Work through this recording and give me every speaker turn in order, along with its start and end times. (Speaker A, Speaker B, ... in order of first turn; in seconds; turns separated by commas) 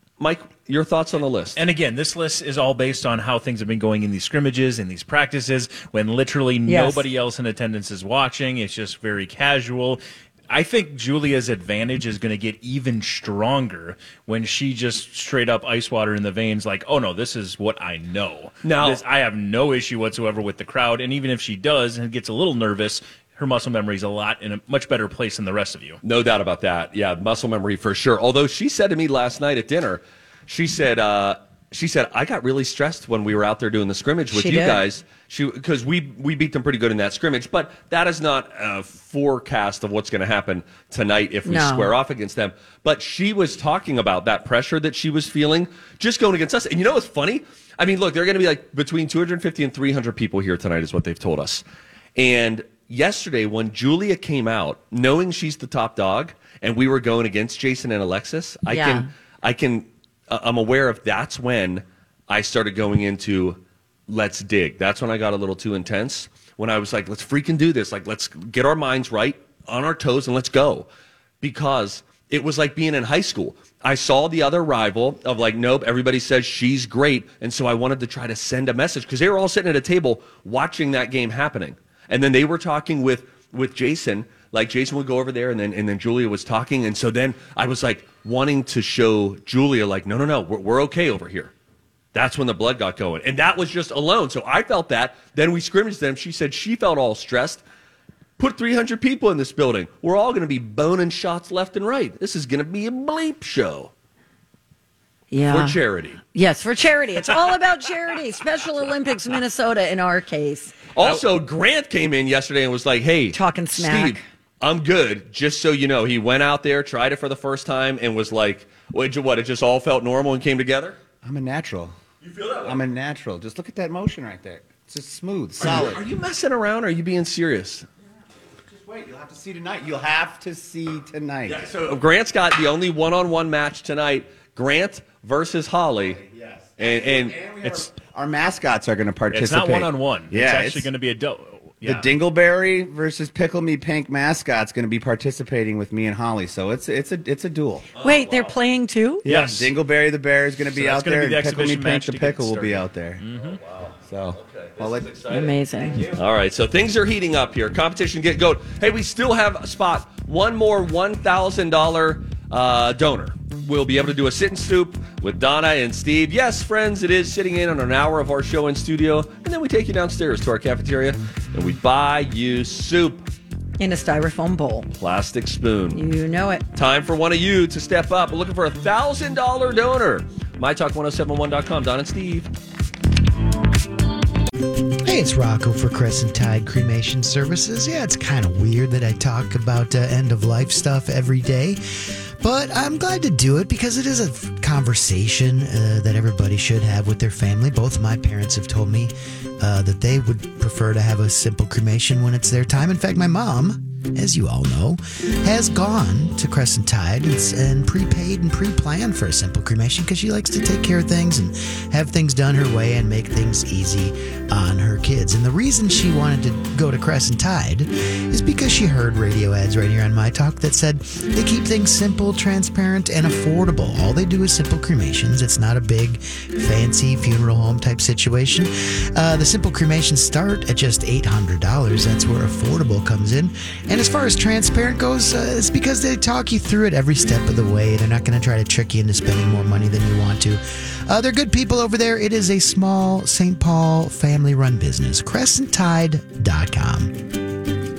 Speaker A: 0.2-1.6, Speaker B: 1.6-26.0, Speaker C: 6.7-7.0, Speaker A: 18.6-19.0, Speaker A: 26.0-51.6, Speaker C: 34.3-34.8, Speaker C: 41.5-41.9, Speaker A: 52.2-70.9, Speaker C: 58.7-59.1, Speaker A: 71.4-91.5, Speaker A: 92.1-97.6, Speaker A: 98.4-103.9, Speaker C: 105.3-105.8, Speaker A: 105.5-106.2, Speaker C: 106.3-110.8, Speaker A: 111.0-121.0, Speaker C: 113.3-114.2, Speaker D: 121.2-121.9, Speaker A: 122.2-122.8, Speaker D: 122.6-126.0, Speaker A: 125.6-127.9, Speaker D: 128.7-131.7, Speaker A: 131.5-136.2, Speaker D: 136.0-140.9, Speaker A: 136.8-137.4, Speaker B: 139.3-142.1, Speaker D: 141.8-147.9, Speaker A: 147.9-148.6, Speaker C: 148.0-149.2, Speaker D: 149.2-153.2, Speaker B: 149.3-149.7, Speaker B: 150.7-153.6, Speaker A: 153.4-173.3, Speaker D: 154.1-155.1, Speaker C: 155.3-156.1, Speaker C: 173.8-174.9, Speaker A: 175.0-176.0, Speaker C: 175.9-176.7, Speaker A: 176.8-182.5, Speaker E: 185.0-247.3